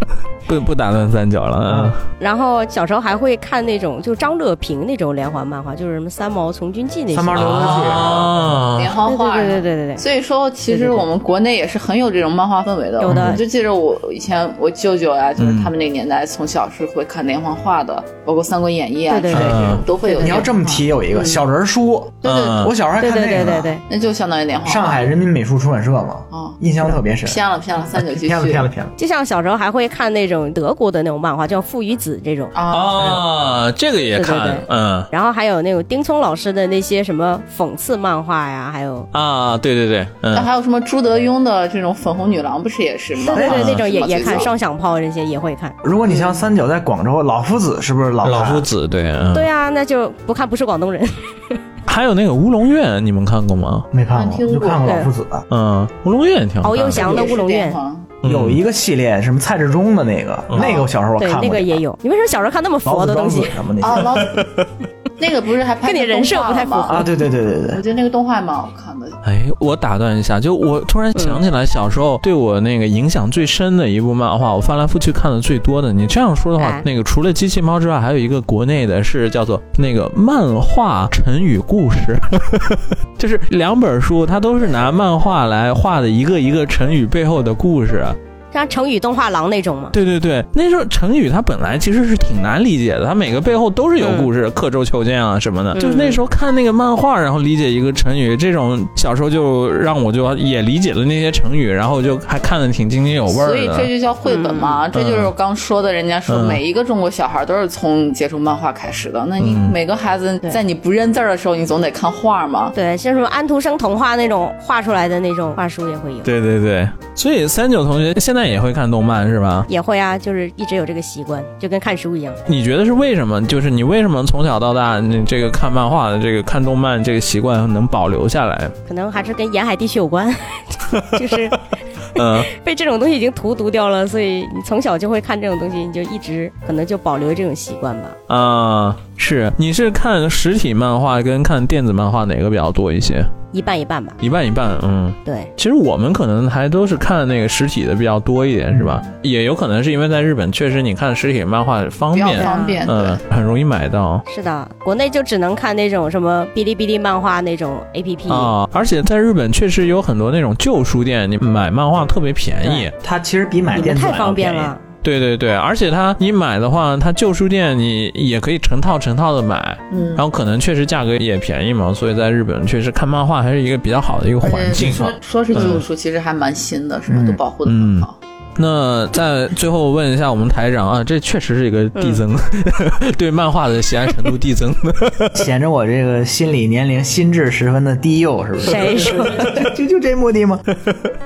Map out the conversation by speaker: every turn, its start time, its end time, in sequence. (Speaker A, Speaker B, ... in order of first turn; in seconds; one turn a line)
Speaker A: 0.5-2.0
Speaker B: 1.7-1.9
Speaker C: 2.2-7.8
Speaker B: 7.1-8.4
Speaker A: 7.3-8.9
Speaker D: 8.8-21.4
Speaker C: 9.1-10.0
Speaker C: 10.7-11.0
Speaker C: 13.0-13.4
Speaker A: 13.1-13.4
Speaker A: 15.4-15.7
Speaker C: 19.1-20.4
Speaker A: 19.3-19.8
Speaker B: 20.2-23.8
Speaker A: 22.2-22.7
Speaker C: 23.0-23.8
Speaker D: 23.9-25.1
Speaker B: 24.6-27.4
Speaker D: 26.3-26.6
Speaker D: 27.2-28.7
Speaker B: 28.0-28.9
Speaker C: 29.0-32.5
Speaker D: 32.5-33.2
Speaker A: 32.7-35.1
Speaker B: 33.0-33.2
Speaker C: 34.2-39.1
Speaker A: 39.1-40.5
Speaker D: 40.3-44.5
Speaker C: 43.2-45.8
Speaker B: 43.3-43.6
Speaker A: 43.5-43.8
Speaker B: 45.8-48.7
Speaker A: 48.2-49.5
Speaker C: 49.3-51.6
Speaker A: 51.9-53.9
Speaker B: 53.9-55.5
Speaker D: 54.1-54.9
Speaker A: 55.5-57.3
Speaker C: 56.6-57.8
Speaker D: 56.9-58.1
Speaker A: 58.2-58.6
Speaker B: 58.2-61.8
Speaker D: 60.6-60.9
Speaker C: 61.2-63.5
Speaker B: 62.9-64.3
Speaker D: 63.8-64.5
Speaker D: 65.2-67.1
Speaker C: 65.8-67.0
Speaker B: 66.9-67.8
Speaker D: 67.7-69.2
Speaker A: 69.2-88.2
Speaker C: 71.2-71.4
Speaker C: 76.6-76.8
Speaker C: 88.5-90.0
Speaker A: 89.9-103.9
Speaker C: 94.0-94.3
Speaker C: 95.8-96.2
Speaker D: 103.3-112.7
Speaker C: 104.3-104.8
Speaker A: 104.9-105.3
Speaker A: 106.3-106.6
Speaker A: 109.4-109.8
Speaker C: 112.7-116.3
Speaker A: 116.2-119.7
Speaker C: 119.7-122.4
Speaker A: 122.5-128.7
Speaker C: 128.9-131.6
Speaker A: 130.9-131.3
Speaker A: 132.2-132.5
Speaker C: 132.2-138.2
Speaker A: 138.3-143.3
Speaker C: 143.5-144.2
Speaker A: 144.2-154.2
Speaker C: 145.2-145.5
Speaker D: 152.1-153.2
Speaker C: 152.3-152.8
Speaker C: 154.3-158.5
Speaker A: 158.3-162.9
Speaker B: 163.0-164.7
Speaker C: 163.7-164.8
Speaker A: 165.0-175.8
Speaker D: 169.9-170.2
Speaker D: 174.4-178.2
Speaker B: 177.1-177.4
Speaker A: 177.7-185.4
Speaker C: 182.0-182.2
Speaker B: 185.3-190.6
Speaker C: 188.6-189.7
Speaker A: 188.9-189.2
Speaker A: 190.9-191.1